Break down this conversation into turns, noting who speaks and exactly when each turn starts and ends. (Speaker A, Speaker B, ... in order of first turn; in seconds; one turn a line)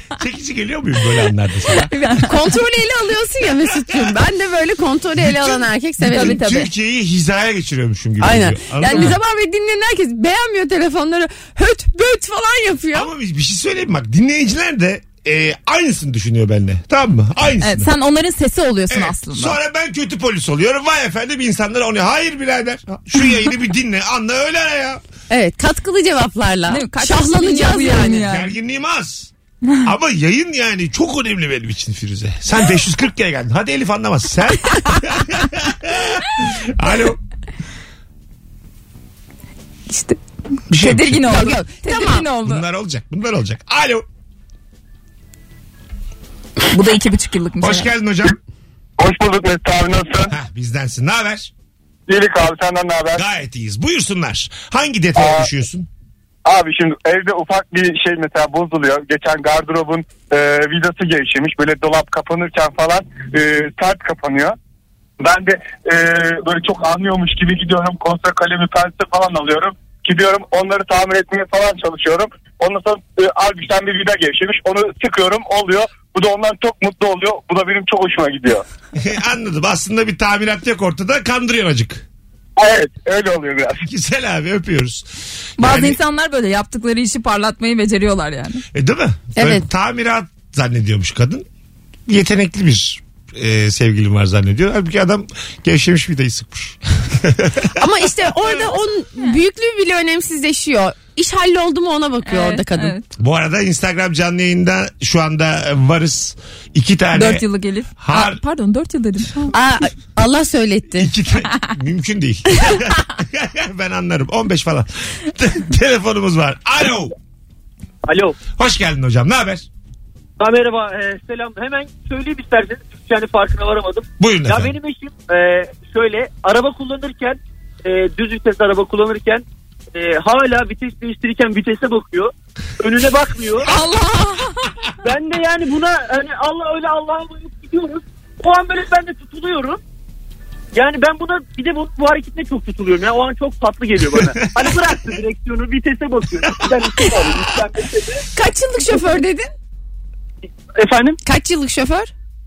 Speaker A: 0.2-2.0
Speaker B: 1.9-2.2
Speaker C: 2.1-6.4
Speaker A: 5.2-9.2
Speaker B: 6.0-6.7
Speaker C: 8.2-13.1
Speaker B: 8.9-9.2
Speaker A: 12.9-17.9
Speaker B: 17.6-19.6
Speaker A: 18.9-25.0
Speaker C: 25.3-28.3
Speaker B: 26.7-28.5
Speaker A: 28.1-29.3
Speaker A: 29.8-37.2
Speaker B: 39.9-40.2
Speaker A: 40.7-41.4
Speaker B: 40.7-42.6
Speaker C: 41.2-42.3
Speaker A: 42.4-44.0
Speaker B: 46.7-47.9
Speaker A: 47.6-48.4
Speaker D: 49.0-50.3
Speaker A: 50.3-51.5
Speaker D: 52.1-53.2
Speaker A: 53.1-55.9
Speaker D: 55.2-55.5
Speaker D: 56.5-64.6
Speaker D: 65.2-78.6
Speaker A: 79.0-82.0
Speaker D: 82.6-83.8
Speaker A: 83.8-85.1
Speaker A: 85.6-86.0
Speaker B: 85.6-88.6
Speaker A: 88.7-91.5
Speaker C: 89.4-89.7
Speaker A: 92.1-97.9
Speaker C: 97.8-103.0
Speaker B: 102.2-103.1
Speaker A: 103.2-107.5
Speaker B: 107.1-109.6
Speaker A: 108.0-108.4
Speaker C: 109.5-111.1
Speaker A: 111.0-117.1
Speaker E: 118.0-118.4
Speaker A: 118.6-119.7
Speaker E: 120.4-133.7
Speaker A: 124.2-124.7
Speaker C: 133.7-134.2
Speaker B: 133.7-134.5
Speaker E: 135.0-139.8
Speaker E: 140.7-148.3
Speaker A: 144.1-144.9
Speaker A: 146.6-147.4
Speaker C: 148.3-149.5
Speaker E: 150.7-151.2
Speaker C: 151.2-152.1